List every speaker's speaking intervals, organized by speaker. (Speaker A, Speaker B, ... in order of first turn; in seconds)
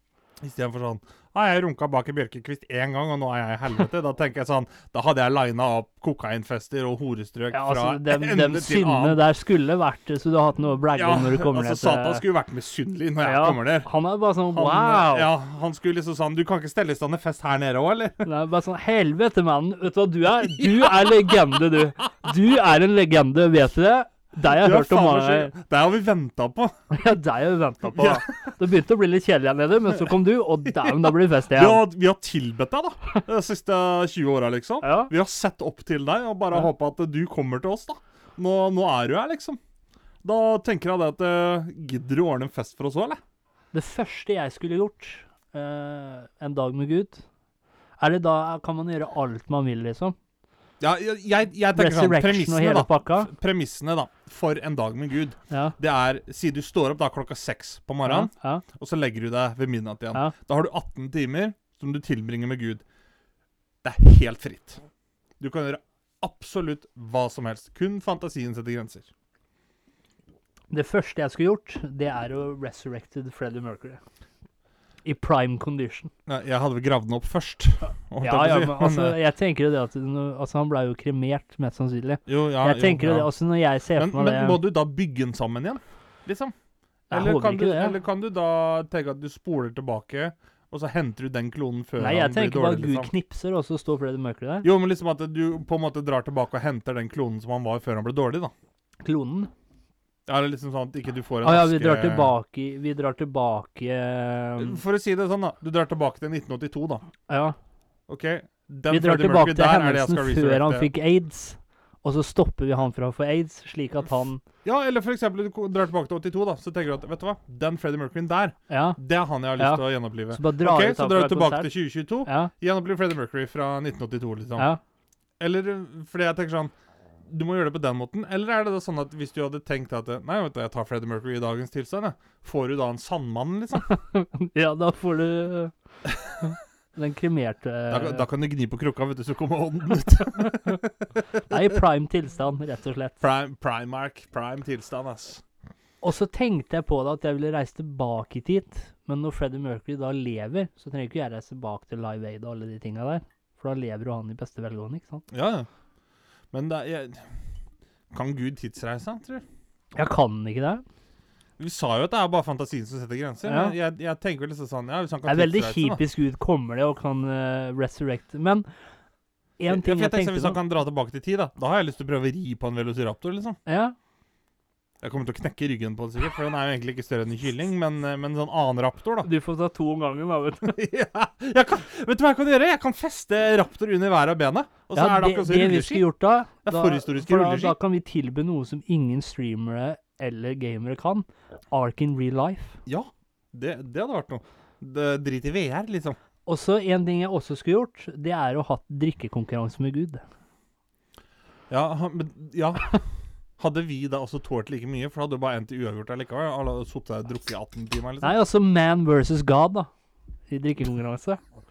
Speaker A: 0.4-9.2, 10.9-13.9, 14.5-18.2, 20.4-21.6, 24.4-26.7, 27.8-28.5, 30.7-39.6, 40.2-43.2, 50.8-62.8, 63.8-64.8, 65.4-69.1, 76.2-79.2, 82.3-83.3, 83.9-86.5, 87.1-93.1, 94.6-98.5, 100.3-102.3, 104.6-107.0, 108.1-110.9, 114.6-124.7, 125.4-126.7, 127.3-133.9, 136.1-136.3, 137.9-141.1, 143.2-145.4, 155.3-155.7, 156.5-157.3, 158.1-159.4, 161.6-166.0, 169.7-173.6, 175.0-179.3, 180.6-186.0, 186.7-187.8, 192.8-196.2, 201.7-203.0, 203.6-208.3
Speaker B: 7.5-12.2, 13.2-15.3, 18.2-25.5, 26.9-31.8, 34.8-35.1, 43.7-47.2, 48.0-50.1, 51.8-53.3, 55.5-55.8, 58.0-58.6, 70.7-74.0, 75.0-76.1, 77.8-84.6, 87.1-87.9, 92.0-94.7, 99.0-99.5, 101.4-104.8, 107.3-107.5, 108.9-114.4, 118.7-119.0, 119.6-121.7, 122.2-122.5, 133.9-135.7, 136.4-138.2, 141.4-143.2, 146.0-155.2, 159.9-160.8, 163.4-163.8, 165.2-168.7, 169.6-170.6, 173.7-173.9, 179.2-180.8, 184.9-192.8, 196.4-200.2, 208.2-209.9, 210.5-211.4